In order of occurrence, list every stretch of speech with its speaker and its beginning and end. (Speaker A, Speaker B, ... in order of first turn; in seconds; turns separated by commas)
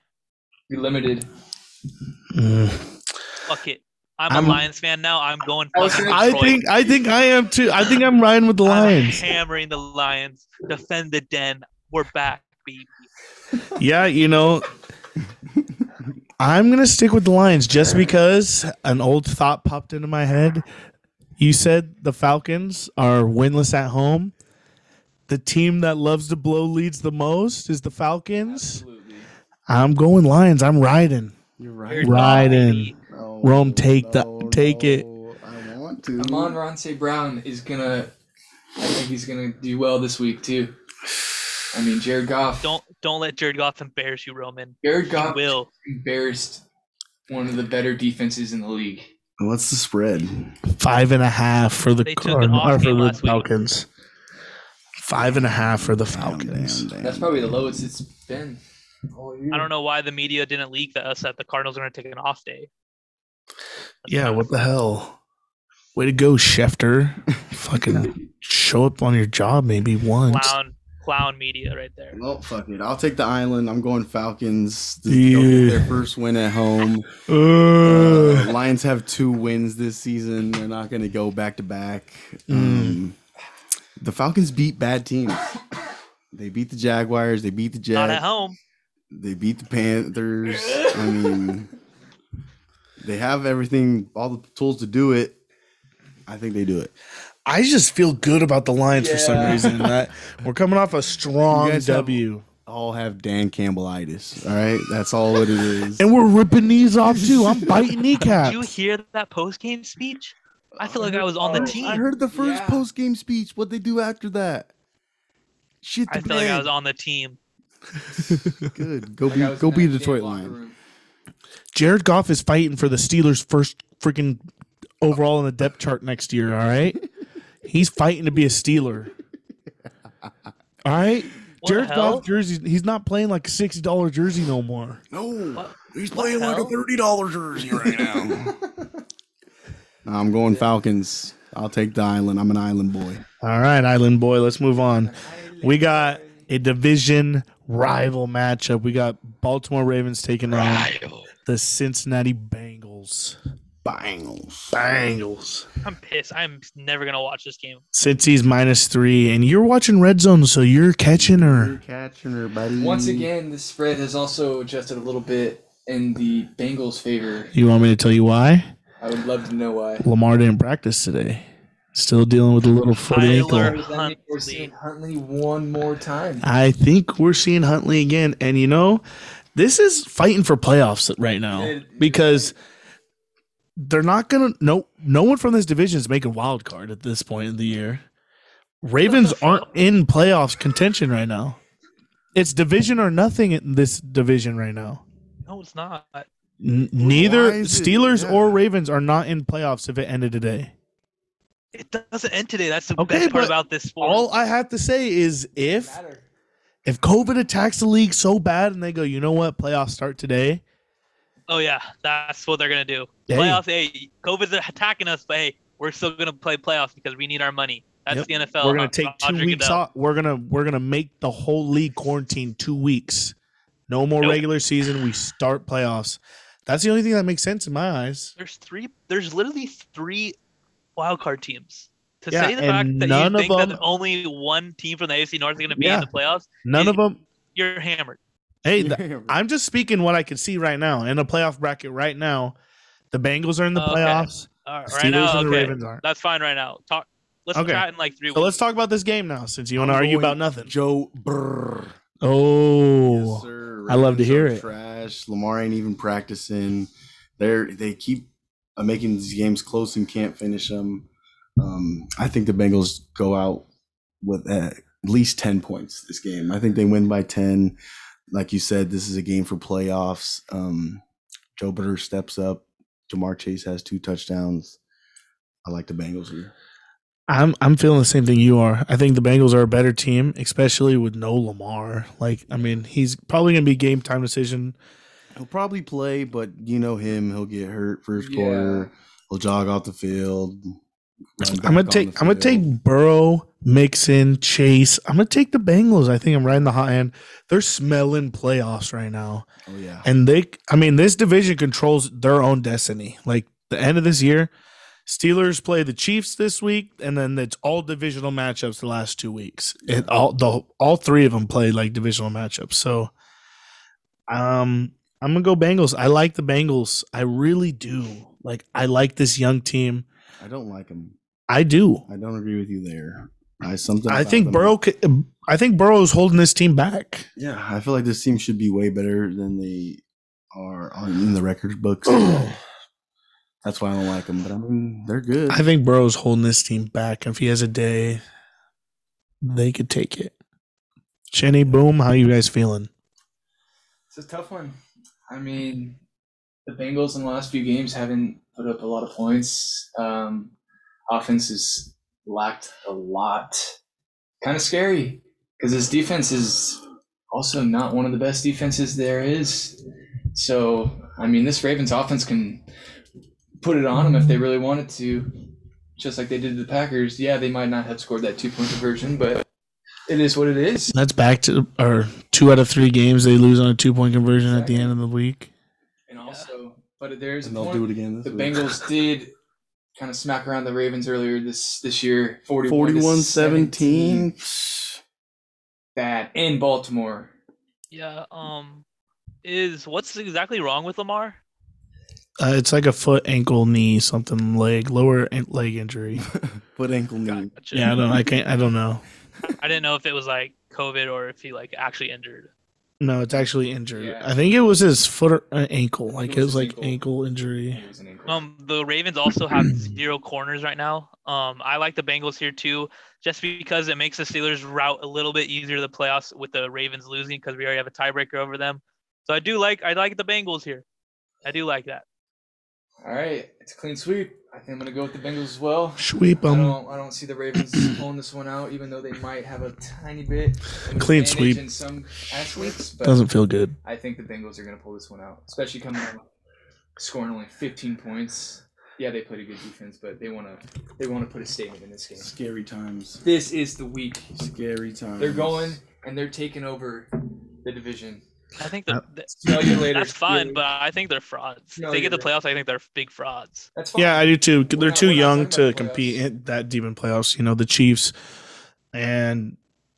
Speaker A: 0.7-1.3, Speaker B: 2.3-2.9, Speaker C: 3.5-6.6, Speaker B: 4.3-4.6, Speaker A: 5.7-6.4, Speaker B: 5.9-9.2, Speaker C: 8.6-12.9, Speaker B: 13.7-14.7, Speaker B: 16.4-20.6, Speaker B: 21.4-24.3, Speaker B: 25.3-28.8, Speaker A: 28.3-29.3, Speaker B: 29.7-31.4, Speaker D: 31.6-36.6, Speaker C: 31.9-33.0, Speaker B: 32.0-35.0, Speaker A: 36.2-38.1, Speaker A: 38.8-40.7, Speaker A: 41.7-42.7, Speaker C: 42.6-45.7, Speaker A: 44.8-46.6, Speaker A: 47.3-49.1, Speaker D: 49.4-50.6, Speaker B: 50.7-53.9, Speaker C: 52.0-53.5, Speaker B: 55.0-56.9, Speaker D: 56.0-57.5, Speaker A: 57.0-58.6, Speaker A: 59.1-59.7, Speaker C: 59.5-62.7, Speaker C: 64.0-64.5, Speaker B: 64.1-65.2, Speaker B: 65.9-70.5, Speaker C: 70.3-72.2, Speaker D: 72.1-77.1, Speaker B: 75.1-76.0, Speaker B: 77.3-78.5, Speaker D: 77.8-83.2, Speaker B: 82.5-83.0, Speaker D: 84.0-85.6, Speaker D: 86.3-88.2, Speaker C: 87.9-88.6, Speaker D: 89.1-91.7, Speaker D: 93.0-95.4, Speaker D: 96.3-96.9, Speaker B: 97.5-102.5, Speaker A: 98.9-99.8, Speaker D: 101.5-106.1, Speaker B: 106.0-108.7, Speaker D: 107.2-107.9, Speaker C: 108.3-112.0, Speaker D: 110.7-114.7, Speaker A: 111.4-112.8, Speaker D: 115.8-116.7, Speaker C: 116.1-117.4, Speaker D: 118.1-120.6, Speaker A: 119.3-120.8, Speaker B: 121.7-124.4, Speaker B: 125.0-127.0, Speaker B: 127.7-129.1, Speaker B: 130.8-135.0, Speaker C: 131.6-132.2, Speaker D: 135.1-138.7, Speaker C: 135.6-136.8, Speaker D: 140.0-143.2, Speaker B: 143.4-153.4, Speaker A: 144.9-146.5, Speaker C: 150.9-151.2, Speaker D: 153.8-154.8, Speaker B: 154.7-155.7, Speaker C: 155.8-157.8, Speaker B: 157.9-161.8, Speaker D: 161.1-163.3, Speaker A: 162.8-167.5, Speaker B: 167.5-168.7, Speaker A: 169.0-170.1, Speaker B: 170.0-173.8, Speaker C: 173.1-174.7, Speaker A: 173.3-176.4, Speaker B: 176.4-179.0, Speaker B: 179.5-182.6, Speaker A: 181.5-182.5, Speaker B: 183.8-188.0, Speaker B: 188.8-191.6, Speaker C: 189.0-189.7, Speaker B: 192.3-195.0, Speaker C: 195.4-196.3, Speaker B: 196.6-200.7, Speaker D: 197.0-198.6, Speaker C: 201.7-204.3, Speaker B: 203.0-206.0, Speaker A: 205.6-206.2, Speaker B: 206.8-210.6, Speaker C: 211.5-219.8, Speaker B: 213.3-213.6, Speaker B: 218.1-223.3, Speaker B: 223.9-228.3, Speaker C: 228.4-230.3, Speaker C: 230.9-237.0, Speaker B: 232.3-233.8, Speaker B: 235.7-236.1, Speaker B: 236.6-237.2, Speaker C: 237.5-238.2, Speaker B: 238.6-242.6, Speaker D: 238.8-239.4, Speaker B: 243.1-246.0, Speaker C: 243.7-248.5, Speaker B: 247.5-250.7, Speaker D: 249.8-251.9, Speaker B: 252.2-254.6, Speaker D: 253.1-261.1, Speaker D: 261.6-263.7, Speaker D: 264.2-267.8, Speaker D: 268.3-271.0, Speaker D: 271.6-274.8, Speaker D: 275.6-276.5, Speaker B: 277.3-284.8, Speaker D: 285.4-290.7, Speaker A: 288.1-288.9, Speaker D: 291.4-292.7, Speaker B: 291.4-299.4, Speaker D: 299.6-300.1, Speaker B: 300.0-304.5, Speaker B: 305.1-313.1, Speaker D: 309.9-310.1, Speaker B: 314.3-320.1, Speaker D: 320.4-321.1, Speaker B: 321.5-322.1, Speaker D: 322.1-324.7, Speaker B: 324.1-327.3, Speaker D: 327.4-332.6, Speaker B: 332.1-332.5, Speaker D: 333.6-335.6, Speaker B: 335.5-338.2, Speaker B: 339.4-340.3, Speaker B: 341.3-342.9, Speaker A: 344.1-344.8, Speaker A: 345.3-346.0, Speaker A: 346.6-350.5, Speaker A: 351.1-353.8, Speaker A: 354.4-359.8, Speaker A: 360.3-362.6, Speaker A: 363.6-365.3, Speaker A: 366.0-369.4, Speaker A: 370.1-370.9, Speaker B: 370.9-375.5, Speaker A: 374.4-374.9, Speaker A: 376.1-379.3, Speaker C: 376.2-376.5, Speaker D: 377.4-378.8, Speaker A: 379.9-384.3, Speaker D: 382.6-385.0, Speaker A: 385.9-387.3, Speaker C: 387.9-388.8, Speaker C: 389.4-391.4, Speaker B: 392.4-396.2, Speaker D: 396.2-397.5, Speaker C: 397.2-398.0, Speaker B: 397.7-399.0, Speaker C: 399.4-402.5, Speaker B: 403.0-407.8, Speaker A: 403.9-404.3, Speaker A: 406.1-407.0, Speaker A: 407.7-408.4, Speaker C: 408.3-420.8, Speaker C: 421.4-422.0, Speaker A: 423.0-433.2, Speaker B: 426.0-426.8, Speaker B: 430.9-431.6, Speaker B: 433.0-433.7, Speaker A: 433.8-436.2, Speaker A: 437.0-442.3, Speaker D: 442.2-443.2, Speaker A: 443.2-444.3, Speaker D: 444.3-445.8, Speaker A: 445.2-448.2, Speaker C: 448.6-453.7, Speaker B: 448.9-449.8, Speaker A: 449.4-450.6, Speaker A: 451.8-452.3, Speaker A: 453.8-456.2, Speaker B: 453.9-458.1, Speaker B: 458.9-459.6